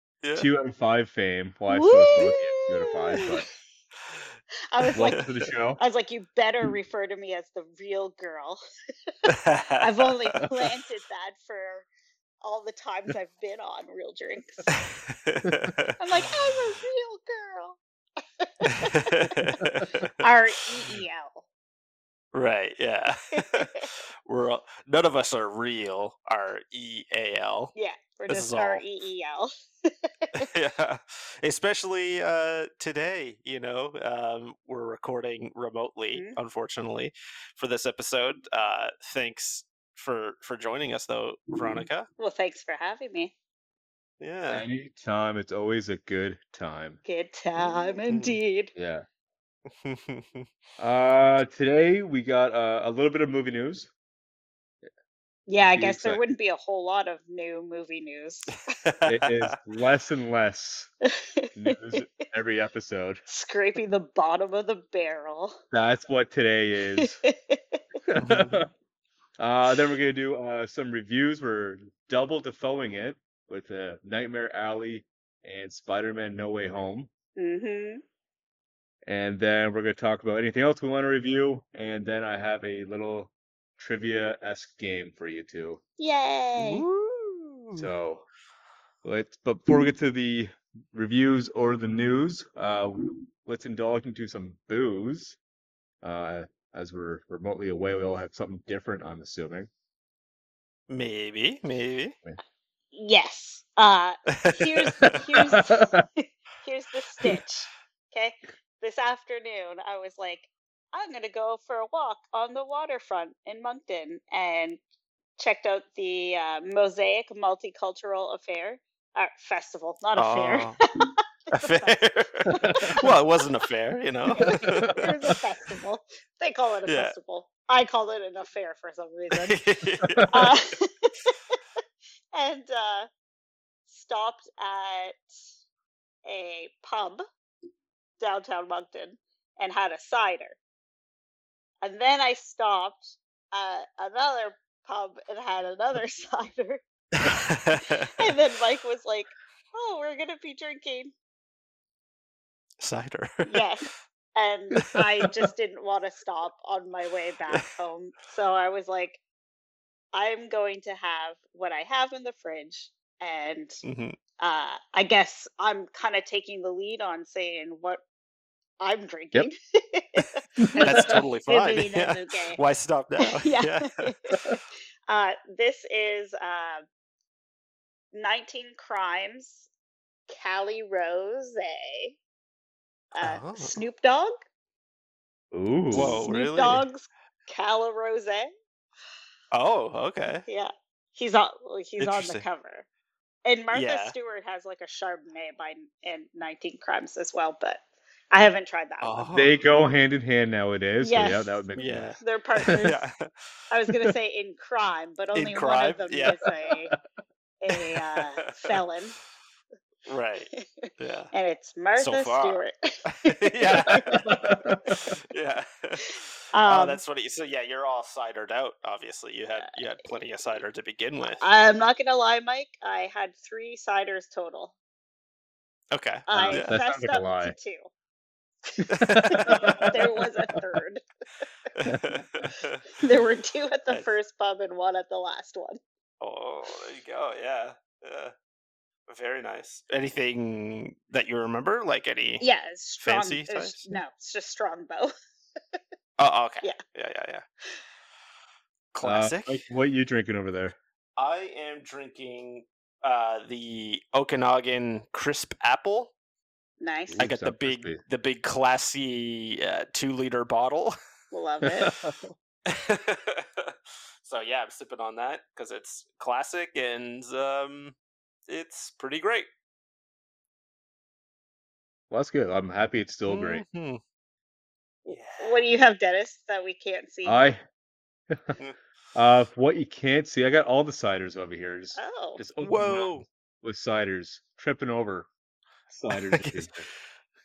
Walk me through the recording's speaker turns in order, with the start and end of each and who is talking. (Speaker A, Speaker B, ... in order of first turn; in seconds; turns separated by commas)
Speaker A: 0.2-0.5, Speaker B: 0.3-3.5, Speaker C: 1.7-3.4, Speaker C: 4.7-8.6, Speaker B: 4.9-5.8, Speaker A: 9.3-10.3, Speaker C: 9.3-11.9, Speaker C: 12.4-14.7, Speaker A: 14.8-15.9, Speaker C: 16.0-17.8, Speaker C: 18.4-19.6, Speaker A: 18.7-19.9, Speaker B: 19.6-20.1, Speaker C: 20.2-21.4, Speaker A: 22.3-27.7, Speaker C: 23.4-23.9, Speaker C: 27.8-30.5, Speaker A: 28.3-28.8, Speaker A: 30.4-42.1, Speaker C: 42.2-43.3, Speaker A: 44.2-44.7, Speaker B: 44.5-47.0, Speaker C: 47.1-48.7, Speaker A: 48.1-48.4, Speaker B: 48.8-49.1, Speaker A: 49.8-50.5, Speaker B: 50.8-53.9, Speaker C: 55.5-58.6, Speaker B: 55.7-56.2, Speaker A: 58.7-59.5, Speaker B: 59.1-60.9, Speaker B: 61.6-63.2, Speaker C: 63.3-65.6, Speaker B: 65.7-67.2, Speaker C: 67.0-67.8, Speaker B: 68.1-68.7, Speaker A: 68.2-68.6, Speaker B: 69.4-77.1, Speaker C: 77.4-78.0, Speaker B: 79.0-85.8, Speaker C: 86.0-86.8, Speaker A: 86.6-87.9, Speaker B: 87.7-88.3, Speaker B: 89.0-95.4, Speaker B: 96.0-99.7, Speaker A: 100.9-102.2, Speaker C: 102.9-114.8, Speaker A: 104.3-104.9, Speaker B: 105.1-106.0, Speaker C: 115.4-122.0, Speaker A: 120.2-120.8, Speaker A: 121.5-125.4, Speaker C: 122.5-123.1, Speaker B: 122.6-122.9, Speaker C: 124.3-129.6, Speaker B: 124.4-125.1, Speaker A: 126.9-127.2, Speaker A: 129.3-130.3, Speaker B: 130.1-130.5, Speaker C: 130.3-131.6, Speaker C: 132.3-133.1, Speaker C: 133.9-135.2, Speaker C: 136.3-137.2, Speaker C: 138.2-140.6, Speaker C: 141.8-146.8, Speaker A: 147.2-148.3, Speaker C: 148.0-151.1, Speaker A: 152.8-153.6, Speaker C: 153.5-159.2, Speaker C: 160.1-163.8, Speaker A: 163.8-164.2, Speaker C: 164.4-168.0, Speaker C: 168.8-172.6, Speaker B: 170.6-171.2, Speaker A: 170.8-174.1, Speaker C: 173.2-174.6, Speaker B: 174.3-174.6, Speaker C: 175.1-176.8, Speaker C: 178.1-179.7, Speaker C: 180.3-182.2, Speaker C: 183.1-184.3, Speaker A: 183.2-183.8, Speaker B: 185.5-186.2, Speaker A: 185.9-186.8, Speaker C: 185.9-188.5, Speaker A: 189.5-190.4, Speaker C: 190.5-192.9, Speaker A: 192.0-192.4, Speaker C: 193.4-199.3, Speaker A: 193.7-194.1, Speaker A: 199.0-199.5, Speaker B: 199.3-202.1, Speaker C: 201.0-201.6, Speaker A: 201.8-203.3, Speaker C: 202.2-203.0, Speaker C: 203.7-206.9, Speaker A: 205.3-206.4, Speaker C: 207.6-209.2, Speaker A: 208.5-208.7, Speaker A: 210.1-211.3, Speaker C: 210.6-214.3, Speaker A: 212.0-212.6, Speaker A: 213.1-214.3, Speaker B: 213.9-215.2, Speaker A: 214.9-221.4, Speaker C: 216.5-217.0, Speaker C: 221.4-224.8, Speaker A: 225.9-226.8, Speaker C: 226.3-227.9, Speaker B: 226.3-227.6, Speaker C: 228.8-231.0, Speaker A: 228.9-229.9, Speaker B: 229.0-230.3, Speaker A: 231.8-232.8, Speaker B: 231.8-232.5, Speaker C: 233.0-235.8, Speaker A: 236.2-238.3, Speaker A: 239.1-242.4, Speaker C: 242.4-245.1, Speaker A: 243.0-243.8, Speaker A: 246.2-247.4, Speaker A: 248.9-249.6, Speaker B: 249.0-250.8, Speaker A: 251.2-256.1, Speaker C: 256.8-257.3, Speaker B: 257.1-258.0, Speaker A: 257.2-261.0, Speaker C: 261.3-261.9, Speaker B: 261.6-262.3, Speaker A: 262.7-267.9, Speaker A: 268.5-269.5, Speaker B: 272.1-273.6, Speaker A: 273.3-274.0, Speaker C: 275.1-277.4, Speaker A: 275.1-275.6, Speaker B: 277.2-277.6, Speaker B: 278.3-278.6, Speaker B: 279.1-285.3, Speaker C: 282.0-282.4, Speaker A: 282.6-283.2, Speaker B: 285.9-286.9, Speaker A: 286.3-286.6